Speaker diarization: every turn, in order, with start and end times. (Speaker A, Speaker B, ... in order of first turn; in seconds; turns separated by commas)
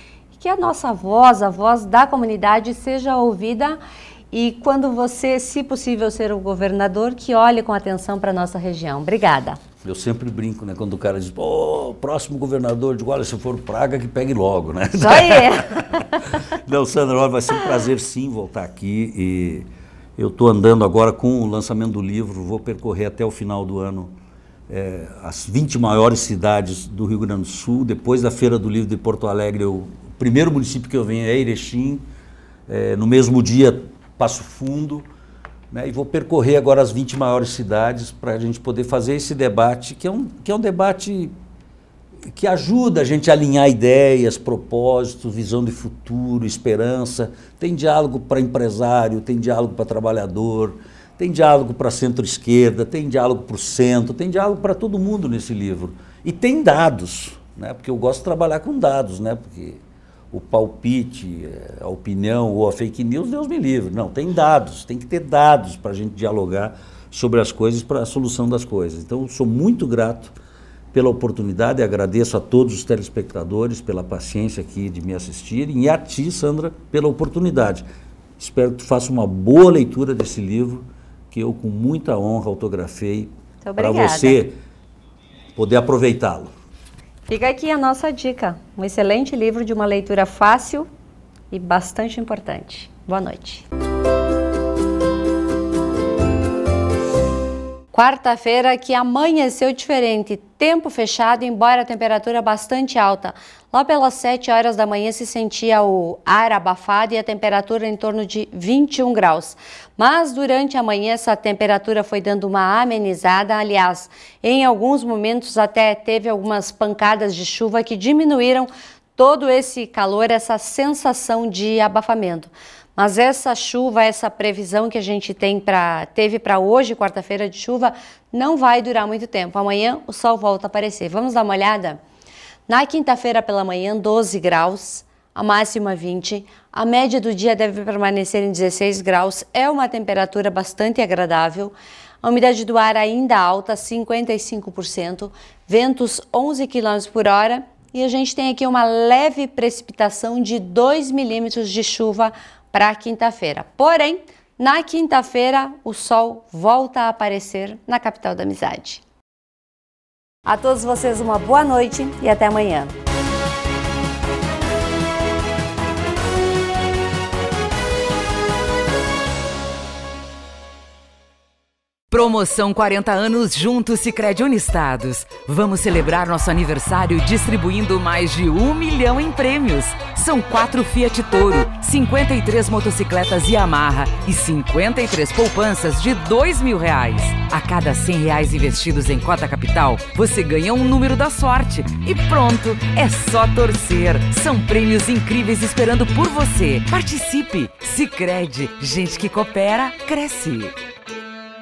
Speaker A: 0.4-3.8, Speaker A: 4.3-9.6, Speaker B: 9.8-24.1, Speaker A: 15.0-16.1, Speaker B: 24.7-32.0, Speaker B: 32.7-35.1, Speaker B: 35.7-41.4, Speaker B: 42.3-59.8, Speaker B: 60.3-70.4, Speaker B: 70.9-77.9, Speaker B: 78.4-84.5, Speaker A: 83.6-84.4, Speaker B: 85.6-86.5, Speaker A: 87.3-90.9, Speaker A: 91.5-93.7, Speaker A: 97.9-132.0, Speaker A: 132.7-159.0, Speaker A: 160.5-162.9, Speaker C: 172.1-200.7